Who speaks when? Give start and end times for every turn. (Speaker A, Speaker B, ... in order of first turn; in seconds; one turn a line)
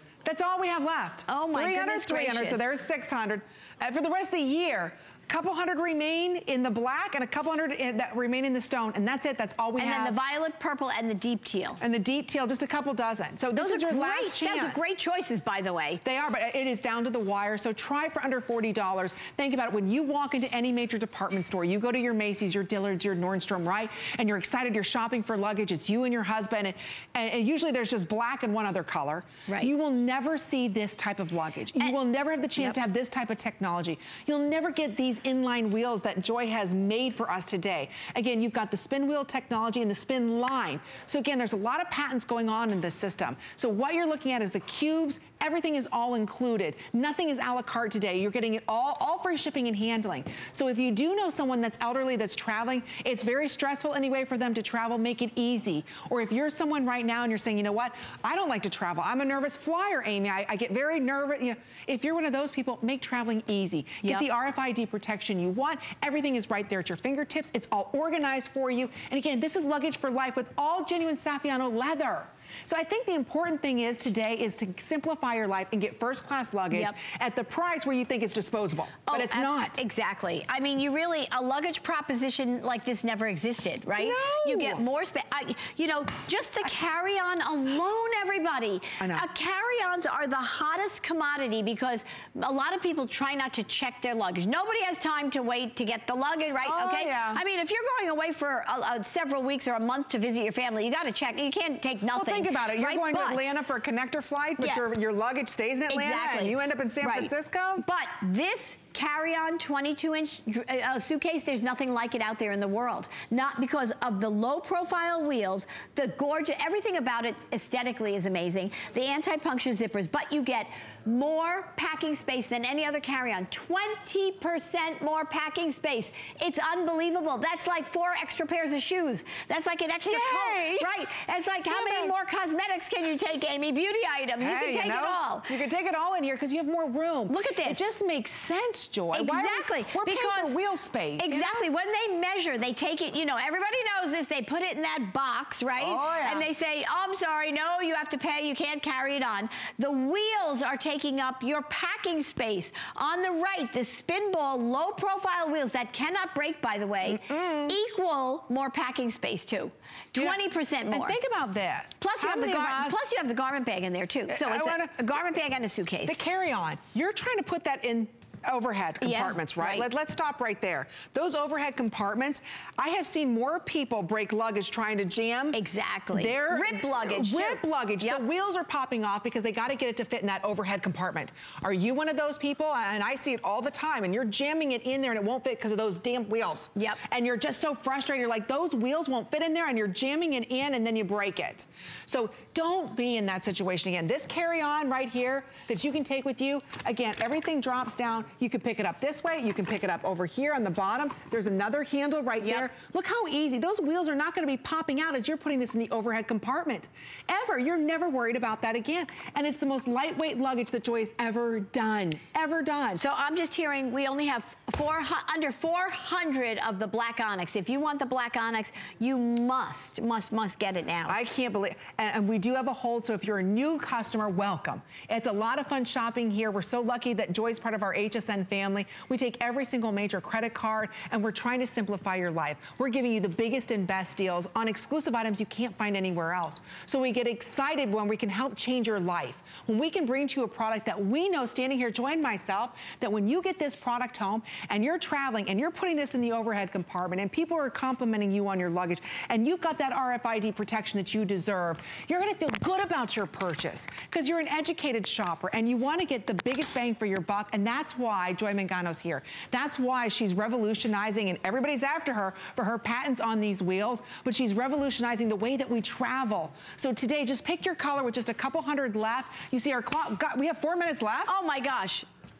Speaker A: 0.2-10.2
Speaker B: 1.3-2.7
Speaker B: 9.8-11.8
Speaker A: 11.8-14.8
Speaker B: 13.5-16.0
Speaker A: 16.0-79.8
Speaker B: 29.5-29.7
Speaker B: 79.1-103.5
Speaker A: 84.0-84.8
Speaker A: 89.0-89.3
Speaker A: 96.6-97.4
Speaker A: 102.1-107.8
Speaker B: 104.6-104.8
Speaker B: 105.9-135.6
Speaker A: 130.0-130.9
Speaker A: 131.7-132.2
Speaker A: 134.4-141.7
Speaker B: 137.3-137.8
Speaker B: 139.1-140.6
Speaker B: 141.2-161.2
Speaker A: 145.8-146.5
Speaker A: 157.0-157.8
Speaker A: 160.1-163.0
Speaker B: 162.0-166.2
Speaker A: 164.3-165.0
Speaker A: 166.1-175.6
Speaker B: 169.0-169.9
Speaker B: 175.5-178.2
Speaker A: 176.1-213.0
Speaker B: 186.8-187.0
Speaker B: 202.4-202.7
Speaker B: 212.9-221.2
Speaker A: 221.1-271.4
Speaker B: 271.3-272.1